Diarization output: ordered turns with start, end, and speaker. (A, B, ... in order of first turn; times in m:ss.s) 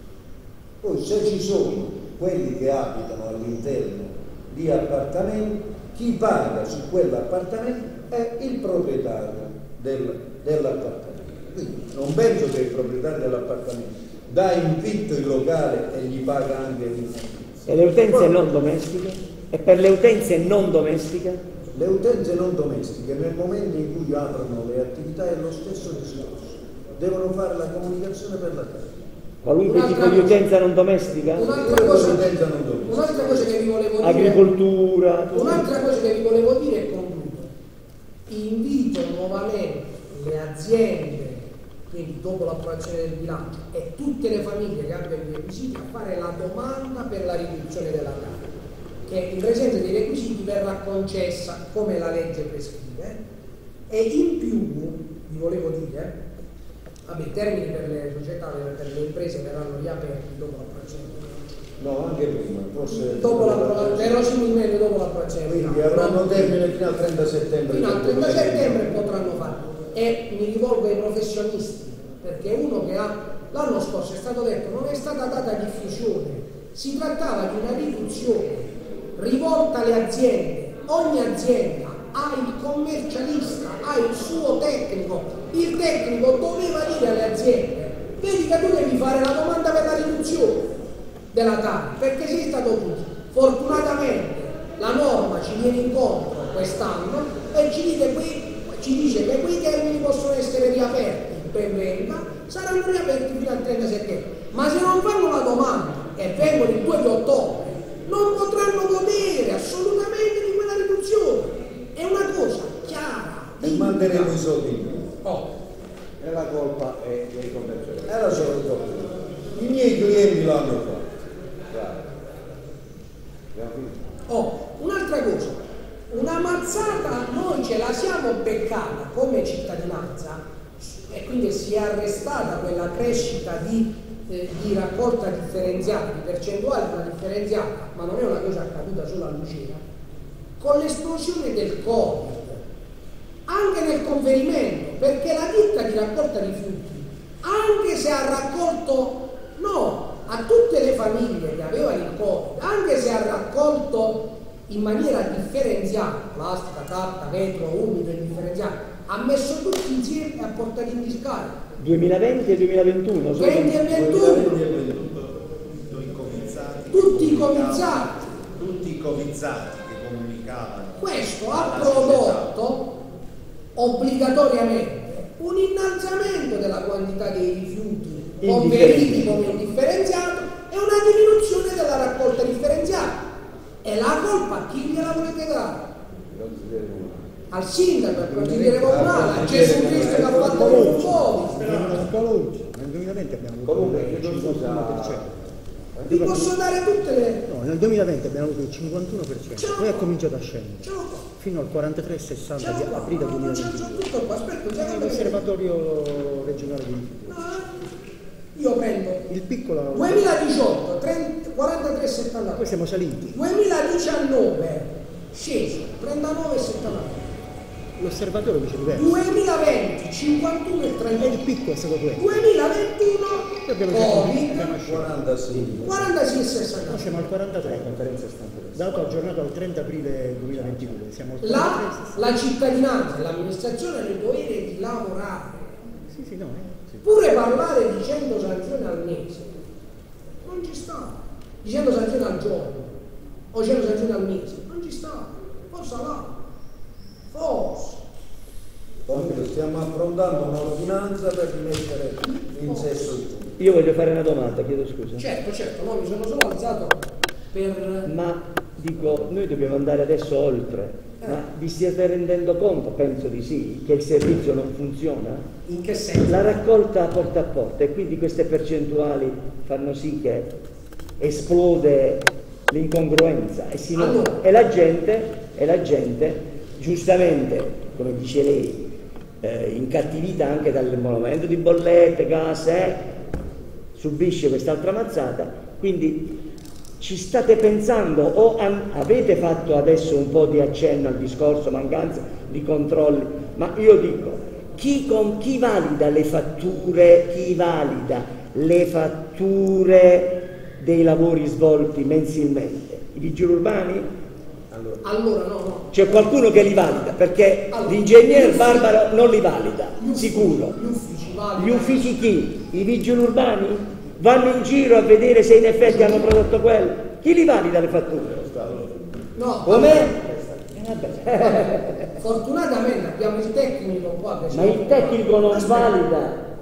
0:00.8-0:18.4 A
0:17.7-0:21.4 B
0:21.7-0:29.0 A
0:29.4-0:31.5 B
0:29.6-0:30.4 C
0:31.4-0:33.6 A
0:31.4-0:34.4 C
0:34.0-0:35.8 B
0:35.3-0:37.5 C
0:38.3-0:53.2 C
0:53.9-0:56.2 C
0:57.1-1:01.3 C
1:01.8-1:04.2 A
1:03.0-1:06.6 C
1:05.4-1:09.0 A
1:07.7-1:30.7 C
1:31.3-1:54.4 C
1:53.6-1:55.1 A
1:55.2-1:55.5 C
1:56.2-1:58.5 D
1:58.1-2:01.2 A
2:01.7-2:02.1 D
2:03.5-2:04.1 D
2:04.3-2:19.8 C
2:20.6-2:22.6 C
2:23.5-2:41.6 C
2:41.8-2:43.8 B
2:43.4-2:44.6 C
2:43.8-2:44.9 A
2:44.5-2:52.5 E
2:46.9-2:48.2 C
2:51.0-2:52.9 C
2:53.8-3:03.2 C
2:58.4-2:59.5 B
3:03.8-3:05.8 C
3:06.3-3:07.3 D
3:07.5-3:11.9 C
3:08.2-3:11.4 A
3:09.1-3:15.3 F
3:13.6-3:15.3 D
3:16.0-3:16.5 D
3:16.0-3:17.4 C
3:17.5-3:24.1 F
3:19.6-3:20.1 C
3:20.8-3:21.3 C
3:22.6-3:25.4 C
3:24.8-3:27.4 F
3:27.2-3:27.9 C
3:28.5-3:29.3 C
3:29.3-3:30.4 F
3:29.9-3:32.7 C
3:32.5-3:33.4 F
3:33.3-3:37.4 C
3:38.0-3:39.2 F
3:38.9-3:41.4 C
3:41.2-3:42.5 F
3:42.2-3:44.6 C
3:43.6-3:46.1 F
3:44.5-3:46.1 A
3:45.8-3:47.2 C
3:46.8-3:52.5 F
3:51.4-3:55.6 C
3:56.1-3:57.0 F
3:57.0-3:59.5 C
4:00.4-4:03.0 C
4:03.5-4:06.4 C
4:07.3-4:08.0 C
4:09.1-4:13.6 A
4:12.4-4:12.9 C
4:13.6-4:15.3 B
4:15.2-4:18.1 C
4:18.0-4:25.5 B
4:25.7-4:26.6 C
4:26.3-4:30.5 B
4:31.2-4:38.9 B
4:33.9-4:34.4 C
4:39.4-4:43.0 B
4:43.9-4:46.3 B
4:47.0-5:04.1 B
5:04.7-5:05.0 A
5:05.0-5:07.1 C
5:05.9-5:10.8 B
5:07.7-5:09.0 C
5:10.0-5:12.1 C
5:11.6-5:18.7 B
5:15.8-5:16.3 C
5:18.4-5:20.7 A
5:19.3-5:20.1 C
5:19.7-5:20.1 B
5:20.7-5:22.1 B
5:21.4-5:26.0 C
5:24.5-5:26.4 B